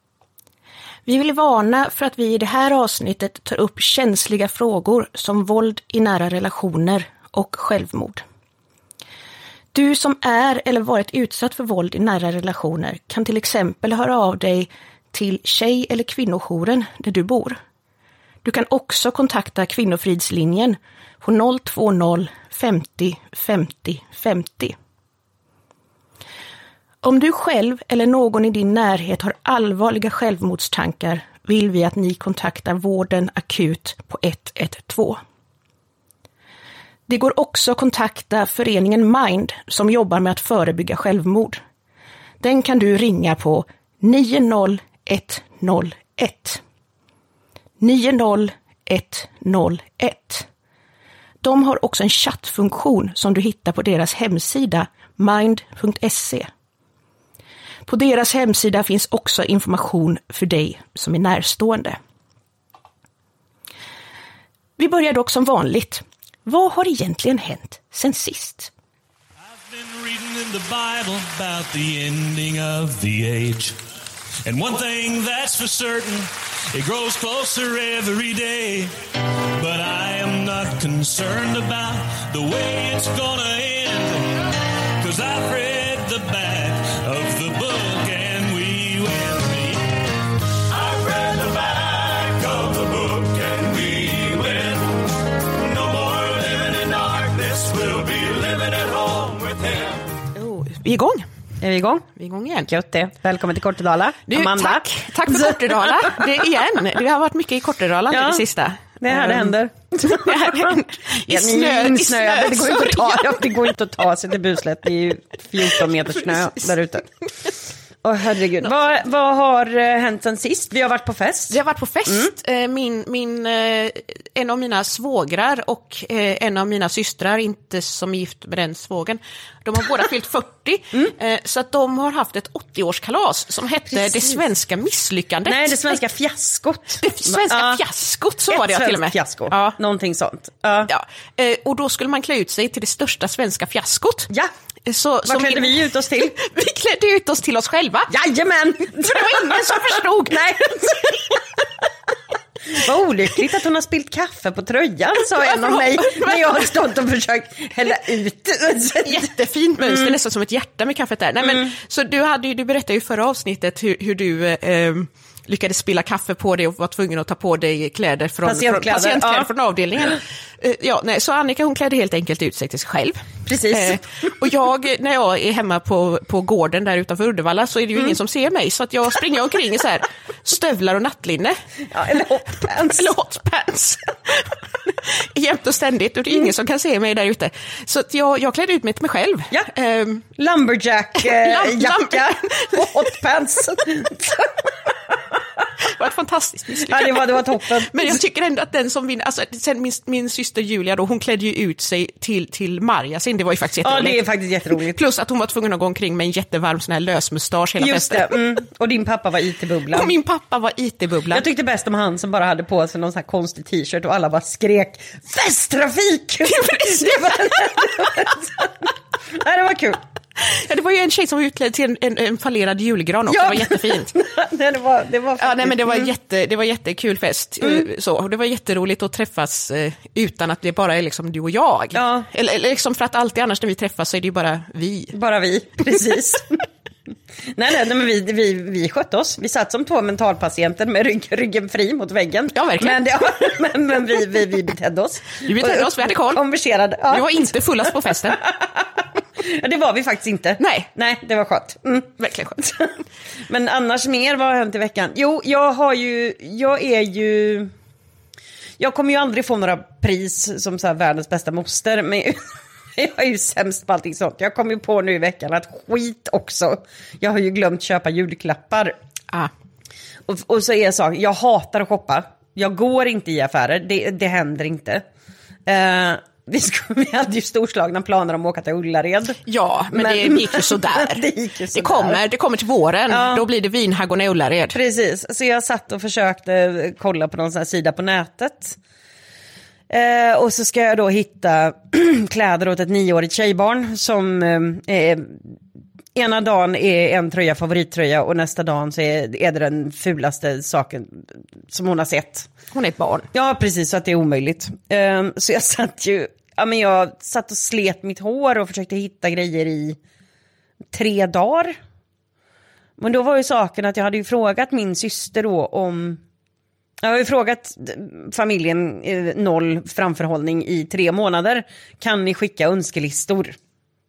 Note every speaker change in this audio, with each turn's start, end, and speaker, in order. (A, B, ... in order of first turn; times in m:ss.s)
0:01.0-0:08.2 A
0:09.7-0:17.6 A
0:18.4-0:24.7 A
0:27.0-0:35.2 A
0:37.1-0:41.6 A
0:42.4-0:46.6 A
0:47.8-0:50.5 A
0:51.4-0:56.5 A
0:57.9-1:02.0 A
1:04.8-1:08.7 A
1:09.5-1:13.8 B
1:14.4-1:19.0 B
1:19.6-1:40.0 B
1:40.3-1:41.2 A
1:41.6-1:42.1 C
1:42.1-1:42.7 A
1:42.6-1:46.4 C
1:44.3-1:53.7 A
1:48.1-1:48.4 C
1:49.0-1:57.1 C
1:56.2-1:56.7 A
1:58.0-2:02.3 C
2:01.5-2:15.9 A
2:13.9-2:14.4 C
2:15.5-2:17.8 C
2:17.0-2:19.8 A
2:18.5-2:20.9 C
2:20.9-2:24.3 A
2:24.8-2:28.1 A
2:25.2-2:26.3 C
2:28.1-2:31.4 C
2:29.0-2:31.3 A
2:32.6-2:39.3 C
2:35.4-2:36.7 A
2:39.0-3:01.5 A
2:39.8-2:40.1 C
2:48.4-2:49.5 C
2:53.4-2:54.0 C
3:01.9-3:03.1 C
3:02.1-3:10.2 A
3:10.4-3:15.4 C
3:11.2-3:13.1 A
3:15.8-3:28.3 A
3:16.7-3:18.2 C
3:23.8-3:25.0 C
3:27.8-3:30.1 C
3:29.9-3:31.4 A
3:31.3-3:40.0 C
3:40.4-3:44.1 A
3:43.3-3:46.1 C
3:45.4-3:55.1 A
3:51.9-3:52.3 C
3:55.1-3:56.7 C
3:57.5-4:07.5 C
4:02.5-4:03.2 A
4:05.4-4:06.4 A
4:07.1-4:08.4 A
4:08.3-4:12.1 C
4:10.6-4:10.9 A
4:12.2-4:12.9 A
4:12.6-4:12.9 C
4:13.4-4:17.7 C
4:18.8-4:29.0 C
4:30.3-4:35.0 C
4:35.7-4:39.4 C
4:39.4-4:44.8 A
4:39.9-4:42.2 C
4:43.1-4:43.4 C
4:44.7-4:48.8 C
4:49.9-4:55.6 C
4:56.1-5:02.5 C
5:02.7-5:03.3 A
5:03.3-5:10.0 C
5:10.9-5:11.8 C
5:13.0-5:16.2 C
5:17.0-5:23.6 C